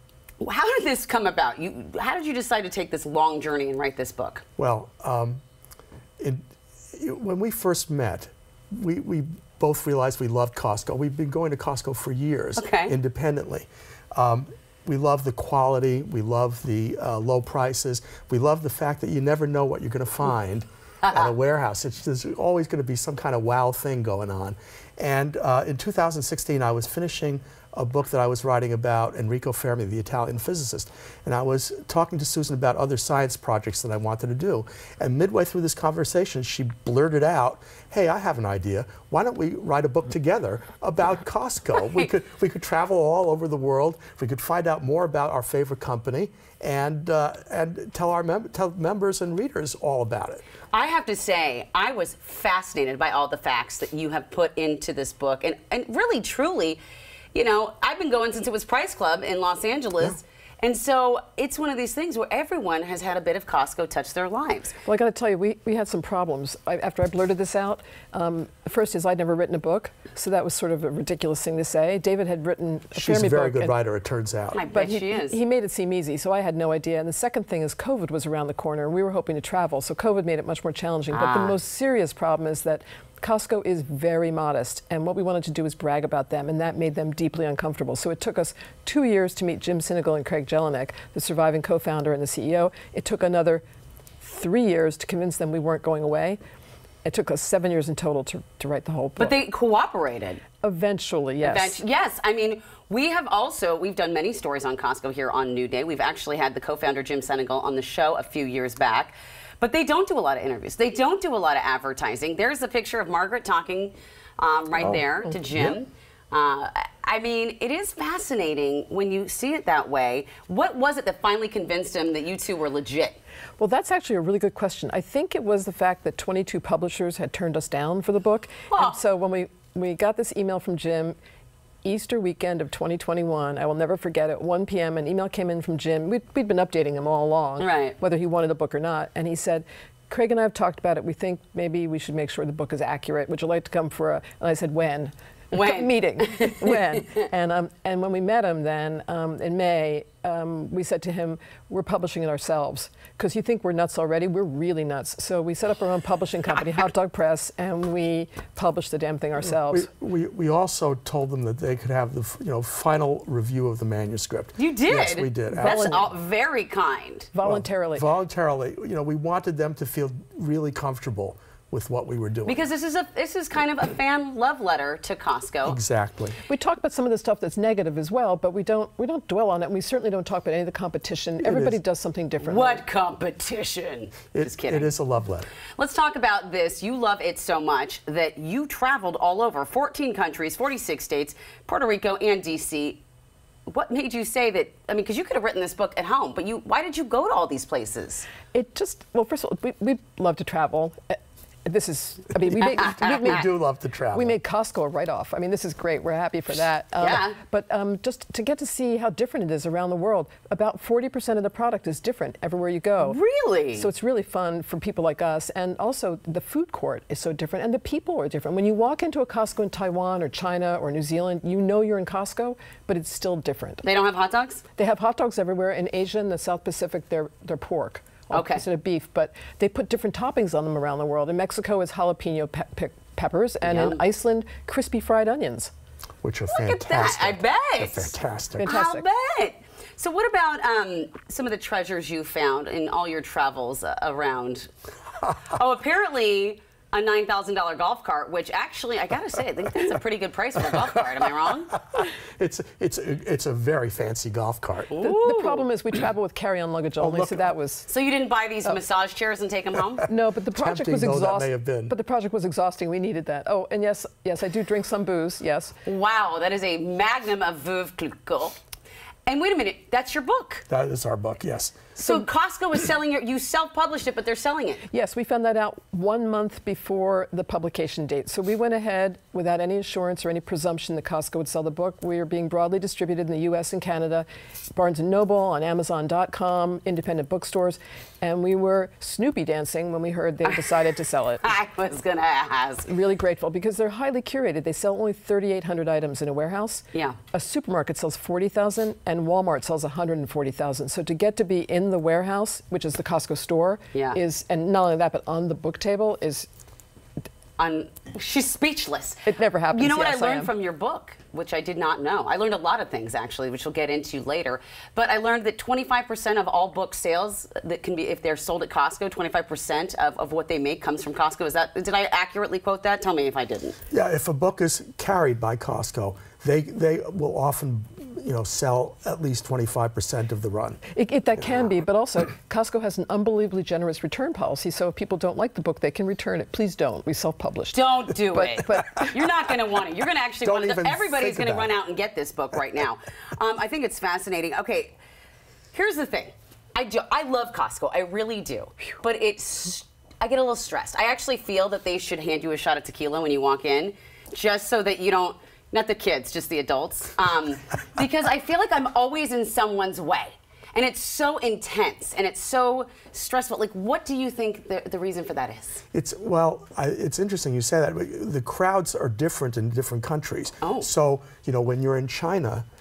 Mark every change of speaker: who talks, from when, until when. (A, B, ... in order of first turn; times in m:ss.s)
0:00.4-0:04.4 A
0:04.6-0:05.4 B
0:06.2-0:50.4 B
0:12.6-0:12.9 A
0:21.0-0:21.3 A
0:50.7-0:56.8 A
0:57.3-1:04.8 A
1:04.8-1:13.7 C
1:13.0-1:14.6 B
1:14.5-1:15.4 A
1:14.7-1:33.6 C
1:21.1-1:21.6 A
1:34.2-1:36.4 C
1:37.0-1:39.4 C
1:39.2-1:40.4 A
1:40.6-1:41.8 C
1:41.4-2:03.2 A
2:03.6-2:11.2 C
2:08.7-2:09.0 A
2:11.8-2:39.9 C
2:17.6-2:18.0 A
2:25.5-2:27.0 A
2:39.5-2:46.1 B
2:44.6-2:47.3 A
2:45.5-2:46.1 C
2:47.3-2:48.1 C
2:47.4-2:52.6 B
2:52.5-2:55.8 A
2:55.6-2:56.4 B
2:56.5-3:02.8 C
3:01.4-3:01.8 B
3:02.4-3:04.9 A
3:04.3-3:05.5 B
3:05.8-3:13.0 A
3:13.7-3:18.3 A
3:18.5-3:23.5 C
3:22.8-3:24.4 B
3:24.1-3:33.2 C
3:27.0-3:27.4 A
3:33.0-3:33.9 A
3:33.8-3:43.8 C
3:43.8-3:44.6 A
3:44.8-3:55.7 C
3:48.3-3:48.6 A
3:53.6-3:54.0 A
3:56.2-3:58.8 B
3:56.5-4:04.7 A
3:58.6-3:59.1 C
4:05.4-4:11.7 A
4:11.7-4:14.9 B
4:14.9-4:15.7 A
4:15.0-4:17.9 C
4:17.0-4:17.5 B
4:17.9-4:20.1 A
4:20.1-4:25.8 C
4:20.5-4:22.0 B
4:25.8-4:28.6 A
4:29.3-4:30.6 A
4:30.7-4:31.9 B
4:32.0-4:34.9 A
4:34.9-4:51.5 C
4:50.5-4:50.8 A
4:51.4-4:52.9 A
4:52.9-5:06.5 C
4:56.9-4:57.2 A
5:03.9-5:04.2 A
5:07.6-5:23.8 A
5:09.3-5:10.5 C
5:23.9-5:30.8 B
5:30.9-5:39.2 C
5:37.7-5:45.0 A
5:40.4-5:41.7 B
5:45.7-6:05.8 A
6:05.9-6:12.7 B
6:10.6-6:10.9 A